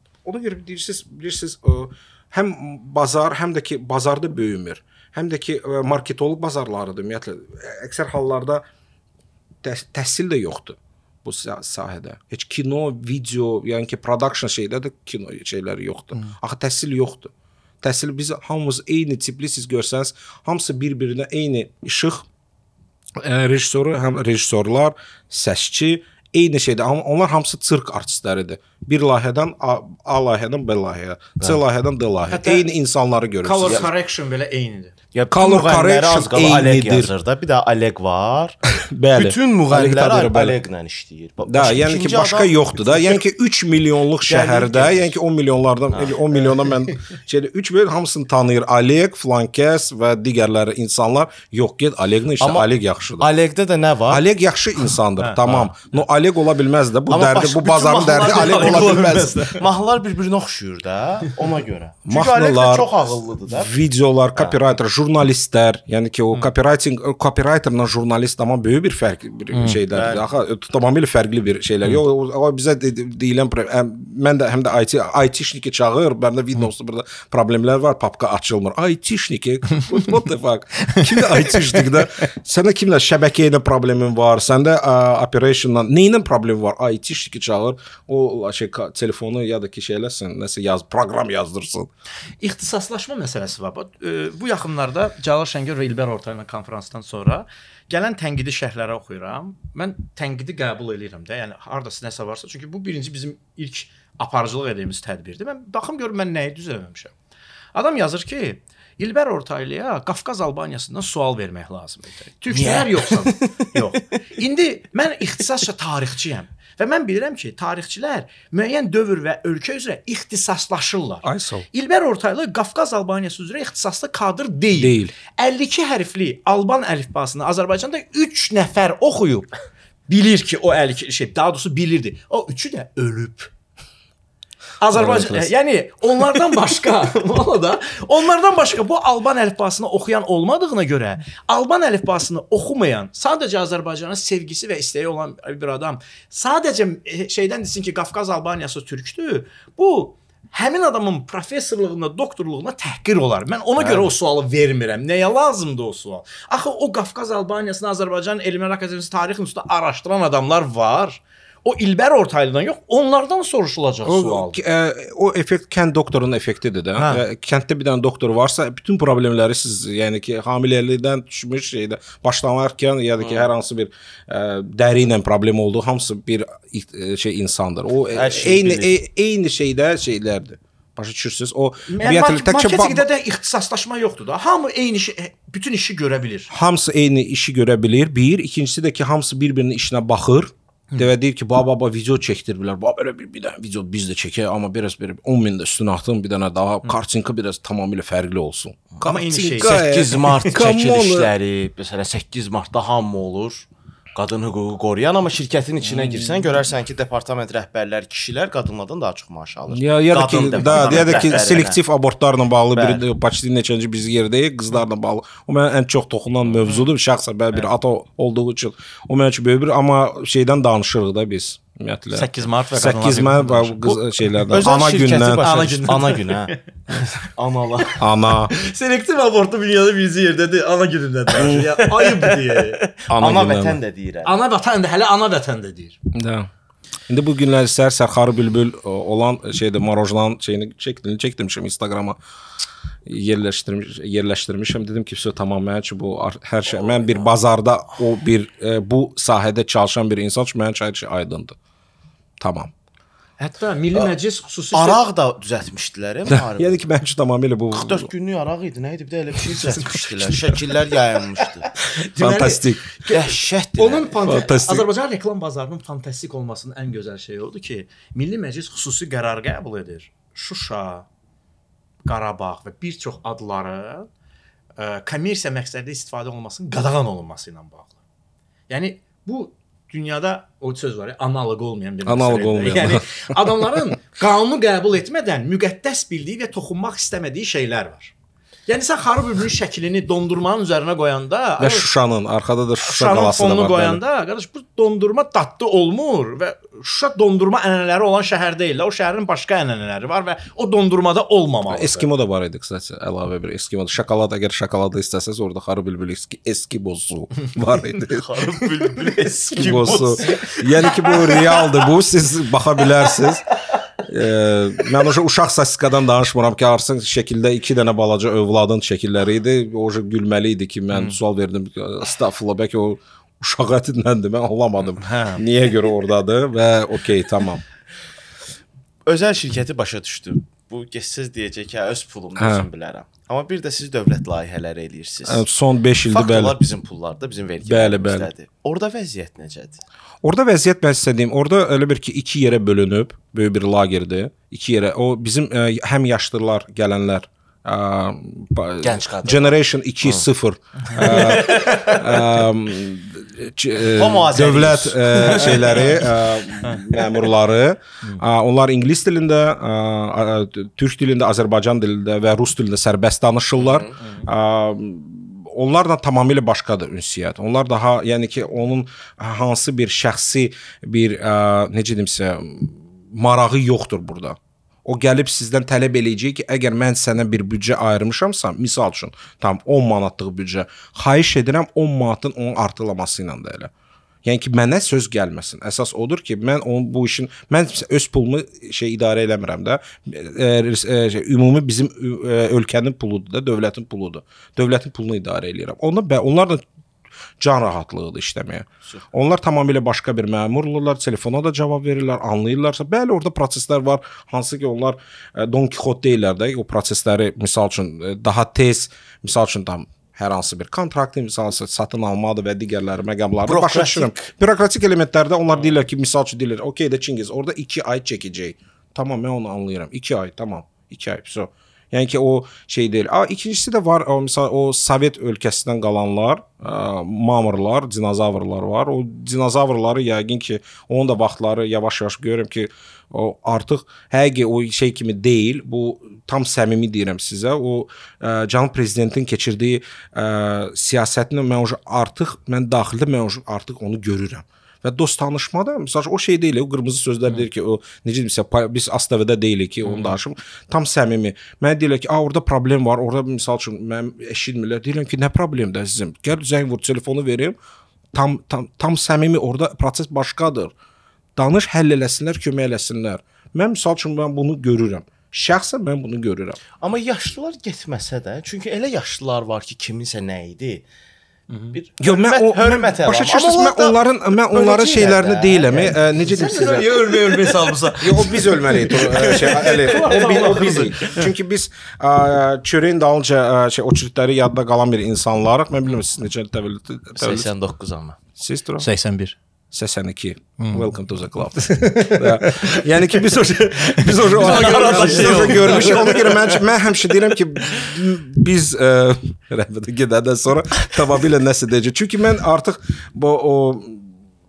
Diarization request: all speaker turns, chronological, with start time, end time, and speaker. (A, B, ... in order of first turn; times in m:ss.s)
0:00.2-0:08.6 A
0:09.6-0:22.2 A
0:23.2-0:33.9 A
0:32.3-0:32.6 B
0:33.4-0:34.9 B
0:35.1-0:38.6 C
0:35.3-0:37.1 A
0:38.9-0:40.6 A
0:39.2-0:43.2 C
0:41.5-0:53.3 A
0:44.3-0:45.1 C
0:45.9-0:46.5 C
0:52.4-0:52.7 C
0:53.2-0:54.2 C
0:54.1-0:59.5 A
0:55.2-0:55.6 B
0:57.1-1:03.7 C
0:58.2-0:59.6 B
1:02.1-1:31.9 A
1:09.9-1:10.4 C
1:20.9-1:22.0 B
1:32.4-1:47.1 B
1:47.7-2:09.5 B
1:52.5-1:53.6 C
2:01.2-2:01.7 A
2:04.8-2:05.1 A
2:10.1-2:13.5 B
2:14.8-2:44.6 B
2:15.0-2:15.5 C
2:33.8-2:34.1 A
2:44.0-3:03.1 A
2:47.0-2:47.2 C
2:53.2-2:53.5 C
2:58.1-2:59.0 C
3:01.9-3:06.5 B
3:06.5-3:21.3 A
3:19.0-3:19.8 B
3:19.6-3:31.8 C
3:25.9-3:26.3 A
3:29.7-3:45.4 A
3:32.8-3:33.0 C
3:42.1-3:44.4 B
3:44.5-3:48.0 C
3:45.4-3:46.6 B
3:48.0-3:48.5 A
3:48.5-3:52.8 B
3:51.4-3:51.6 A
3:51.4-3:54.3 C
3:53.1-3:53.8 A
3:54.2-3:56.0 B
3:56.1-3:56.5 A
3:57.1-4:02.2 A
4:03.1-4:11.6 A
4:12.4-4:12.7 A
4:13.4-4:15.0 B
4:14.7-4:16.9 C
4:16.3-4:18.1 A
4:17.7-4:21.7 C
4:19.5-4:20.8 A
4:22.0-4:22.8 A
4:22.1-4:22.6 B
4:23.1-4:24.2 C
4:23.8-4:31.1 B
4:24.2-4:24.9 A
4:32.1-4:34.1 B
4:34.8-4:38.0 B
4:38.7-4:48.1 B
4:42.1-4:43.3 A
4:48.7-4:51.9 B
4:51.6-4:54.0 A
4:52.8-5:02.1 B
5:01.7-5:08.3 A
5:08.0-5:10.6 C
5:09.5-5:13.5 A
5:09.5-5:10.4 B
5:14.1-5:27.6 A
5:25.1-5:25.4 C
5:29.1-5:35.5 C
5:32.4-5:32.6 A
5:35.2-5:36.6 A
5:36.1-5:39.8 C
5:37.6-5:38.3 A
5:40.2-6:23.7 A
5:48.8-5:50.3 C
5:50.9-5:52.4 C
5:53.8-5:56.1 C
5:55.4-5:56.0 B
6:03.6-6:04.0 C
6:24.2-6:36.6 A
6:37.4-7:37.6 A
6:53.5-6:54.3 C
7:38.1-7:40.7 A
7:41.4-7:46.6 A
7:46.8-7:50.9 C
7:51.5-7:51.8 B
7:51.7-7:56.6 C
7:52.0-7:57.1 A
7:56.3-8:01.2 B
7:57.3-7:57.7 C
7:58.0-8:07.5 A
7:59.4-8:01.0 C
8:07.2-8:08.2 C
8:08.4-8:08.9 A
8:08.8-8:09.4 B
8:09.7-8:24.1 A
8:10.6-8:10.9 B
8:11.8-8:12.8 B
8:14.0-8:16.3 B
8:14.4-8:16.6 C